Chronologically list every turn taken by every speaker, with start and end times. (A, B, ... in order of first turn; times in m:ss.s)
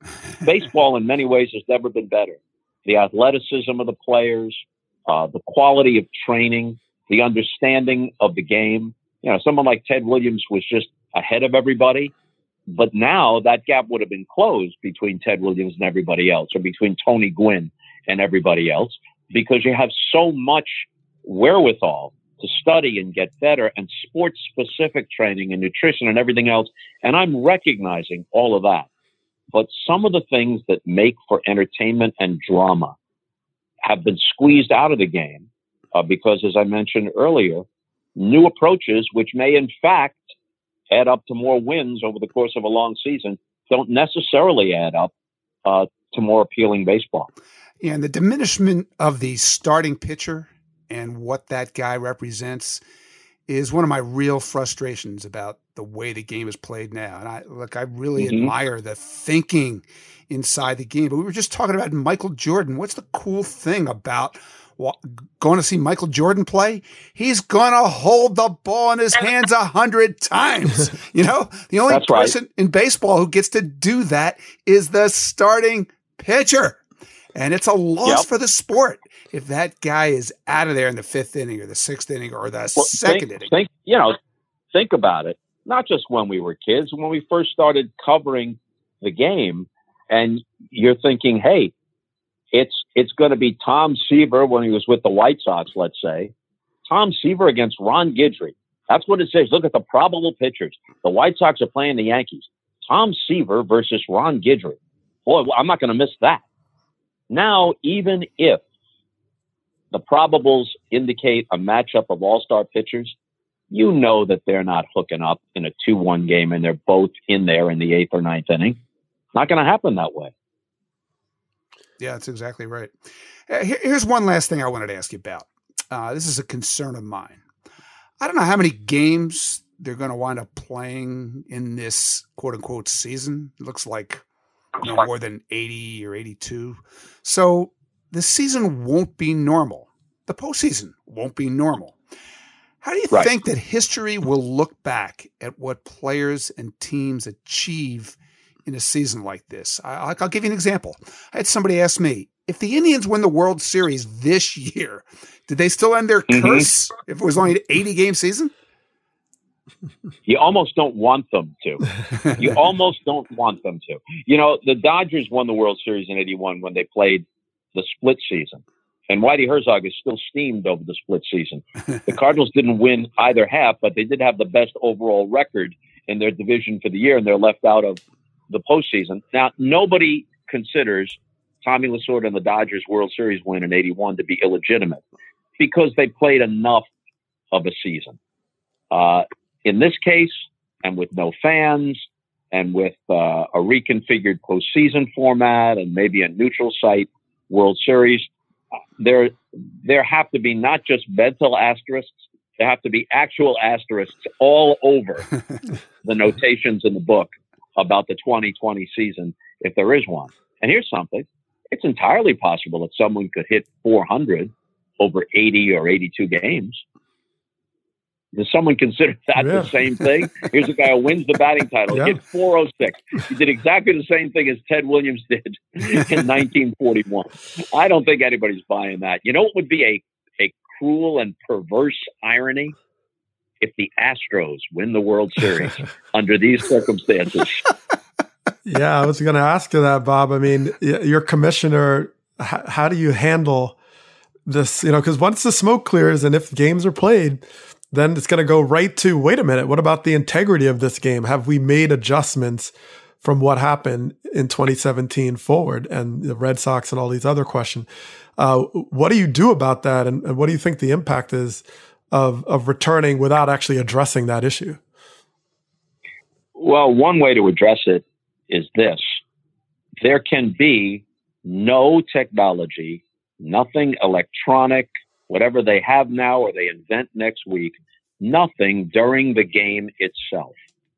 0:00.4-0:12.1 A
0:12.7-0:28.9 A
0:29.5-0:32.9 A
0:33.8-0:37.6 A
0:38.2-0:40.2 A
0:40.9-0:45.1 A
0:45.6-0:47.3 A
0:47.8-0:52.8 B
0:53.5-1:16.8 B
0:58.2-0:58.5 A
1:11.9-1:12.3 A
1:17.3-1:23.5 B
1:22.8-1:24.1 A
1:24.7-1:31.7 A
1:32.5-1:36.3 A
1:36.9-1:46.4 A
1:47.3-1:48.6 A
1:49.9-1:53.1 A
1:53.7-1:58.8 A
1:59.3-2:00.3 A
2:02.0-2:02.9 B
2:03.5-2:07.4 B
2:08.2-2:14.2 B
2:14.8-2:22.0 B
2:22.8-2:38.5 B
2:36.3-2:36.7 A
2:40.3-2:47.2 A
2:47.7-3:05.0 A
3:05.6-3:06.8 A
3:07.5-3:08.2 A
3:08.9-3:18.3 A
3:19.0-3:19.3 A
3:19.8-3:25.3 A
3:26.0-3:36.8 A
3:38.3-3:52.7 A
3:39.4-3:39.7 C
3:41.9-3:42.2 C
3:53.6-3:57.7 A
3:58.6-4:03.8 C
4:04.4-4:24.8 C
4:26.6-4:29.2 A
4:30.0-4:40.5 A